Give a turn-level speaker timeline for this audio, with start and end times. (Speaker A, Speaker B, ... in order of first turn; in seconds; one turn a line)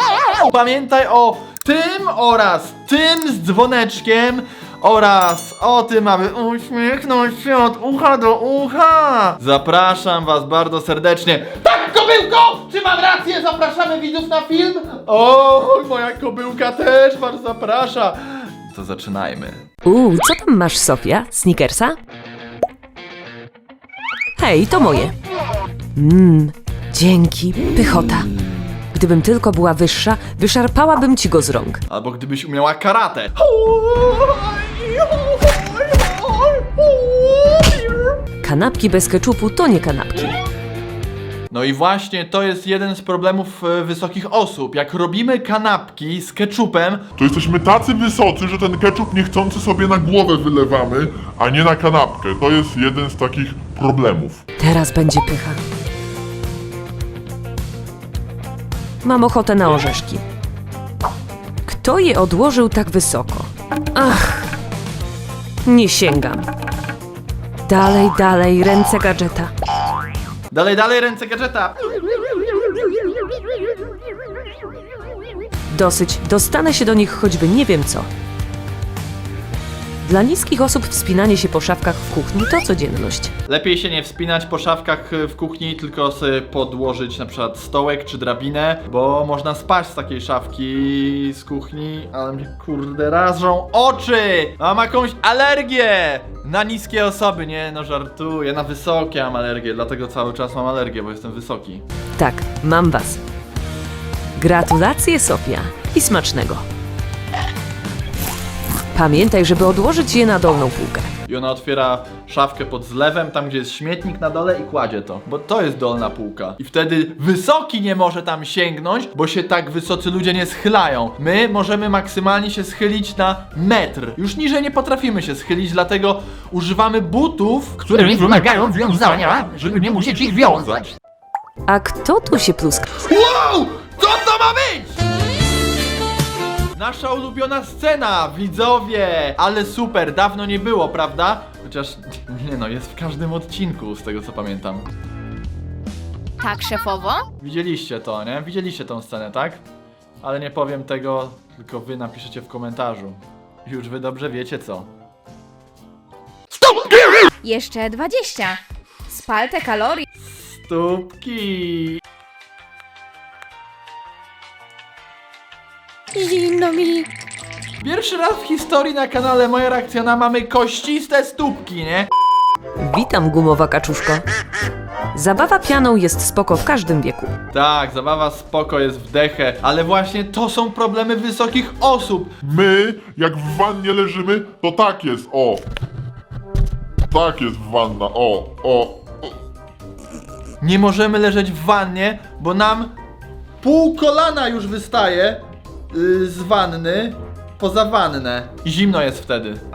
Speaker A: 0.3-19.6
Speaker B: 19.9-22.0
Speaker B: 24.4-25.1
Speaker B: 25.9-28.3
Speaker B: 28.9-31.8
Speaker A: 31.9-38.1
Speaker B: 38.4-40.4
Speaker A: 41.5-47.1
Speaker C: 47.2-54.4
Speaker B: 54.6-55.6
Speaker B: 59.0-60.2
Speaker B: 61.7-64.5
Speaker B: 65.7-66.5
Speaker B: 67.7-69.5
Speaker A: 70.5-71.8
Speaker B: 75.7-78.1
Speaker B: 80.0-83.3
Speaker A: 83.5-101.8
Speaker B: 102.2-103.2
Speaker B: 104.4-106.6
Speaker B: 108.9-111.1
Speaker A: 111.3-127.8
Speaker D: 127.8-130.9
Speaker B: 131.7-132.9
Speaker A: 133.0-135.0
Speaker A: 136.8-144.9
Speaker E: 146.4-147.3
Speaker A: 147.4-149.6
Speaker A: 150.2-154.9
Speaker E: 157.4-160.1
Speaker A: 160.2-162.0
Speaker E: 166.2-167.1
Speaker A: 167.8-172.1
Speaker B: 172.8-174.2
Speaker B: 175.1-177.3
Speaker A: 177.5-182.3
Speaker C: 182.4-185.6
Speaker C: 187.1-189.3
Speaker A: 190.6-192.9
Speaker A: 193.6-199.6